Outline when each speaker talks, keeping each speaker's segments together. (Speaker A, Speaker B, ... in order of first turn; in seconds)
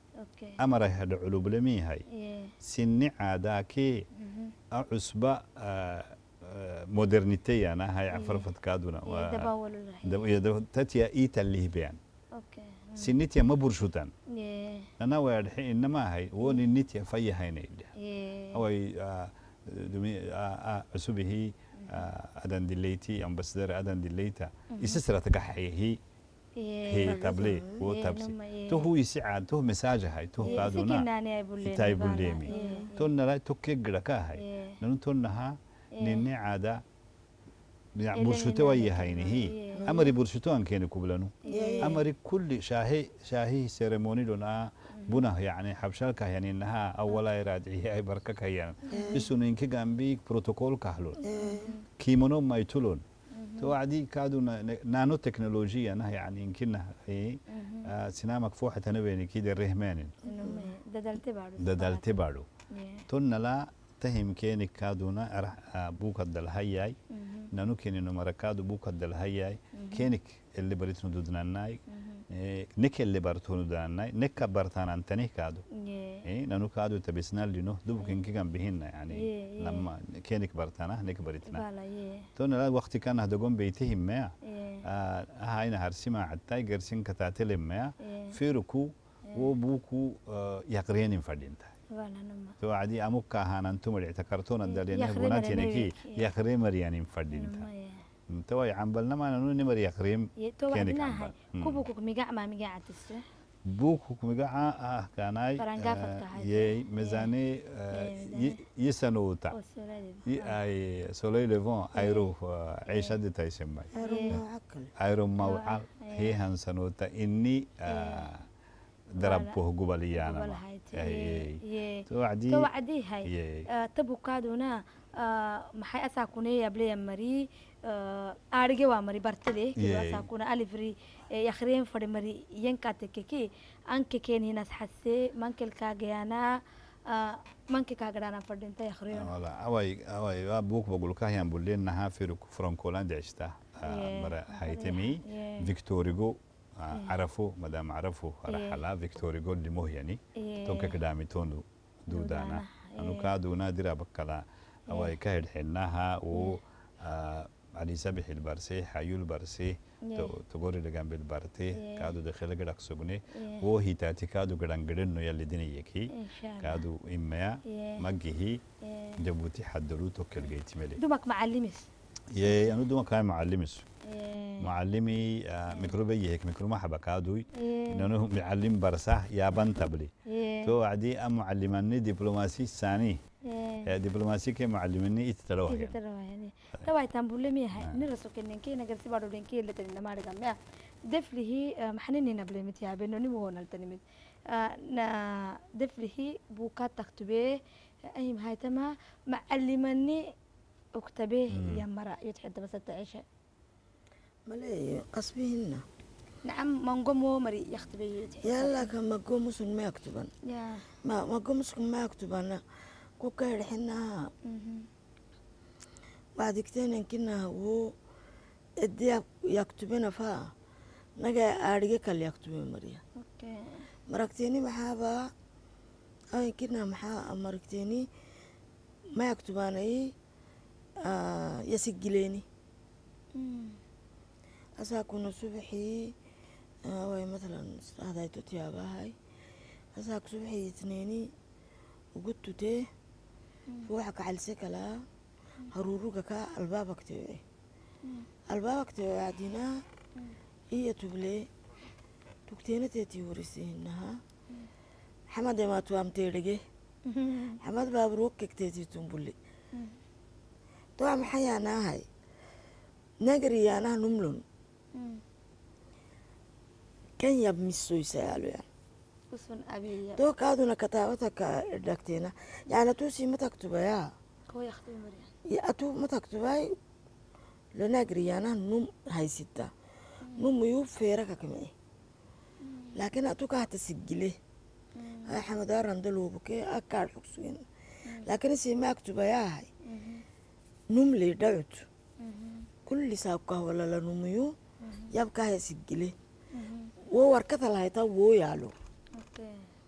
Speaker A: 0.2-0.6, 2.1-2.5, 4.2-4.5, 8.1-8.4, 9.1-10.2, 12.4-13.1, 14.3-14.9, 16.4-16.7, 18.0-18.6, 21.8-22.1, 24.7-25.0, 26.6-27.3, 27.8-28.9, 30.4-33.0, 34.4-34.8, 36.0-36.2, 38.1-39.9, 41.5-41.9, 44.9-45.2, 48.9-49.2, 51.4-51.8, 53.3-53.7, 57.5-57.9, 60.2-62.0, 62.7-63.0, 67.1-67.5, 69.8-70.1, 71.9-72.2, 75.8-76.2, 79.1-79.8, 81.5-82.3, 84.4-84.8, 88.0-88.3, 91.9-92.5, 94.7-96.3, 97.3-98.0, 100.4-103.2, 105.6-107.3, 107.9-108.6, 109.5-110.6, 112.0-112.2, 112.9-113.1, 113.9-114.3, 115.4-116.3, 117.9-118.2, 119.2-119.6, 120.1-136.5, 137.1-139.3, 143.8-145.6, 148.5-148.8, 150.3-150.9, 152.1-153.3, 160.1-160.3, 161.8-162.1, 163.3-163.6, 166.1-166.8, 167.7-168.0, 168.8-169.2, 170.4-171.9, 172.4-172.8, 174.1-174.7, 177.6-178.1, 180.3-180.7, 183.5-183.9, 185.7-197.5, 198.1-200.2, 200.9-203.2, 206.4-208.9, 210.5-210.9, 214.5-214.8, 223.2-223.9, 233.3-233.8, 257.1-257.6, 264.9-265.2, 269.3-270.2, 274.5-275.3, 282.6-282.9, 285.0-285.4, 289.9-290.2, 292.2-292.7, 294.8-295.1, 296.5-296.9, 299.2-299.6
Speaker B: 0.6-2.0, 2.6-4.0, 4.7-9.5, 10.0-12.0, 13.0-14.1, 15.0-17.9, 18.5-26.0, 26.9-31.1, 31.6-36.8, 38.0-51.2, 52.0-53.0, 53.6-60.3, 61.6-62.5, 63.1-67.0, 67.5-75.6, 76.2-81.6, 82.3-84.3, 84.8-91.7, 92.6-97.7, 98.3-101.8, 103.7-109.5, 110.3-114.4, 115.0-118.4, 119.2-122.7, 123.2-123.7, 129.8-130.3, 139.1-168.6, 169.2-171.0, 172.3-173.9, 174.6-180.1, 180.6-183.2, 183.8-186.0, 201.5-201.8
Speaker C: 27.0-27.8, 30.4-30.7, 32.5-32.9, 39.8-40.1, 41.5-42.0, 48.9-49.3, 51.2-51.7, 60.4-60.6, 113.9-114.9, 204.5-205.8, 208.4-210.3, 211.0-212.6, 213.2-214.3, 216.4-217.9, 218.8-220.5, 221.2-223.0, 224.1-225.3, 226.3-228.1, 229.2-230.1, 231.0-232.4, 234.8-236.2, 236.8-239.2, 239.9-241.3, 242.1-242.9, 243.8-245.1, 245.7-247.4, 248.5-249.8, 250.7-251.5, 252.5-254.2, 255.3-256.6, 257.6-259.4, 261.0-262.1, 263.2-264.4, 267.2-268.6, 270.1-274.1, 275.4-276.7, 277.7-279.7, 280.3-281.7, 282.9-284.4, 285.2-287.6, 288.2-289.7, 290.9-291.9, 292.9-294.5, 295.1-296.1, 297.1-298.7